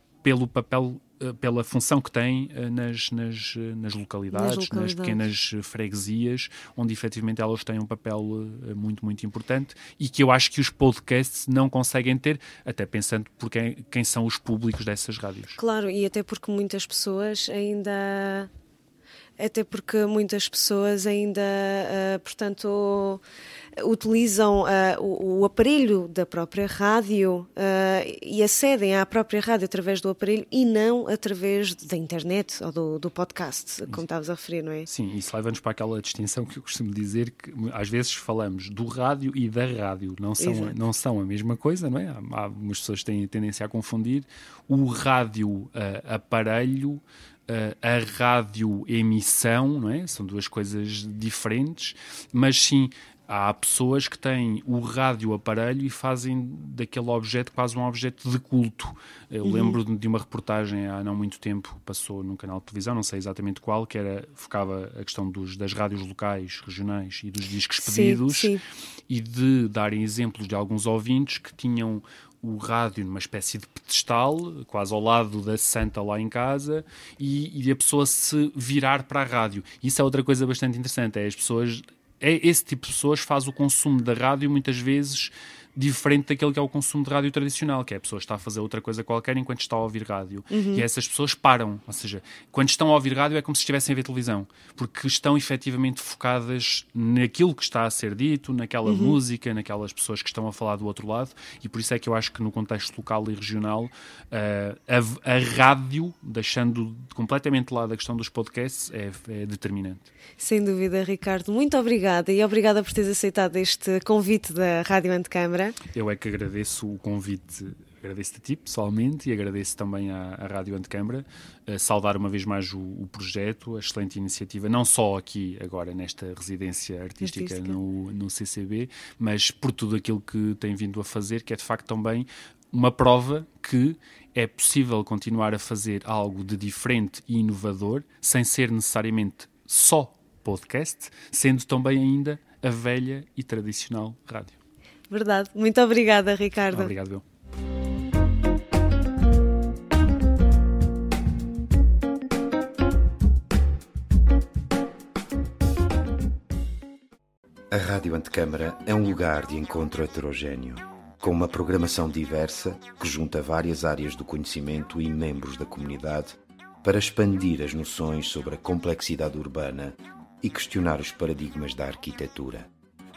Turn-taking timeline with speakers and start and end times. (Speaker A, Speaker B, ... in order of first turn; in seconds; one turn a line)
Speaker A: 0.2-15.6
Speaker B: 4.3-5.2
Speaker B: 15.6-18.5
Speaker B: 19.4-23.2
Speaker B: 23.8-34.9
Speaker A: 34.9-68.5
Speaker B: 40.4-40.7
Speaker B: 59.4-59.8
Speaker B: 67.8-68.6
Speaker A: 69.1-110.1
Speaker B: 90.5-90.8
Speaker B: 98.8-99.2
Speaker B: 110.4-115.8
Speaker A: 115.9-144.6
Speaker B: 127.2-127.7
Speaker B: 145.1-146.9
Speaker A: 146.7-147.2
Speaker C: 157.7-172.7